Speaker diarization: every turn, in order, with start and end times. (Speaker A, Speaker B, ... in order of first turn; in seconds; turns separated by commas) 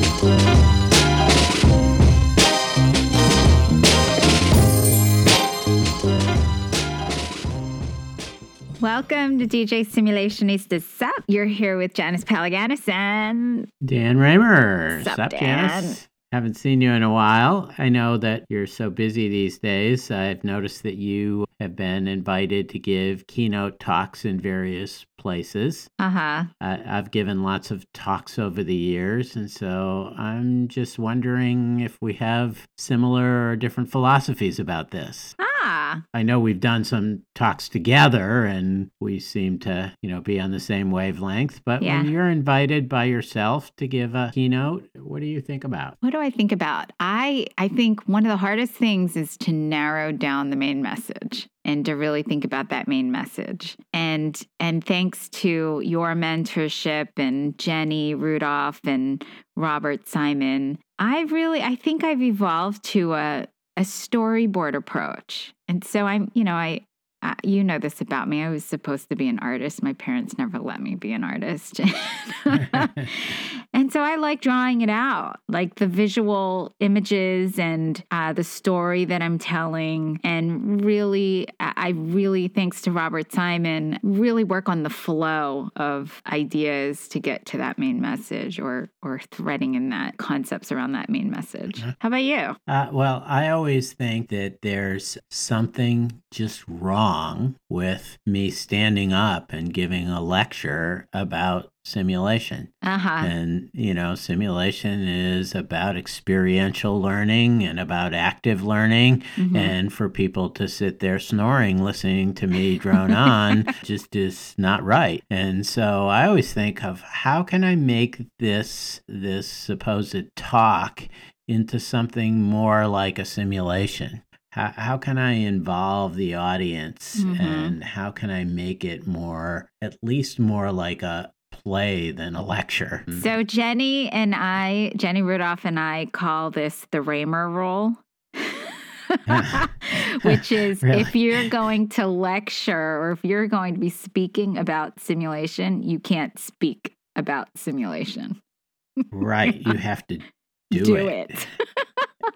Speaker A: 8.8-13.7, Speaker B: 13.8-25.9, Speaker A: 14.9-16.0, Speaker A: 26.0-26.5, Speaker B: 26.6-35.4, Speaker A: 35.4-36.0, Speaker B: 36.1-46.0, Speaker A: 41.8-42.1, Speaker A: 46.0-92.6, Speaker B: 92.7-133.3, Speaker A: 102.8-103.3, Speaker A: 109.4-109.8, Speaker A: 127.2-127.8, Speaker A: 133.2-148.4, Speaker B: 139.3-141.5, Speaker A: 149.0-149.7, Speaker B: 149.1-151.4, Speaker A: 150.7-152.1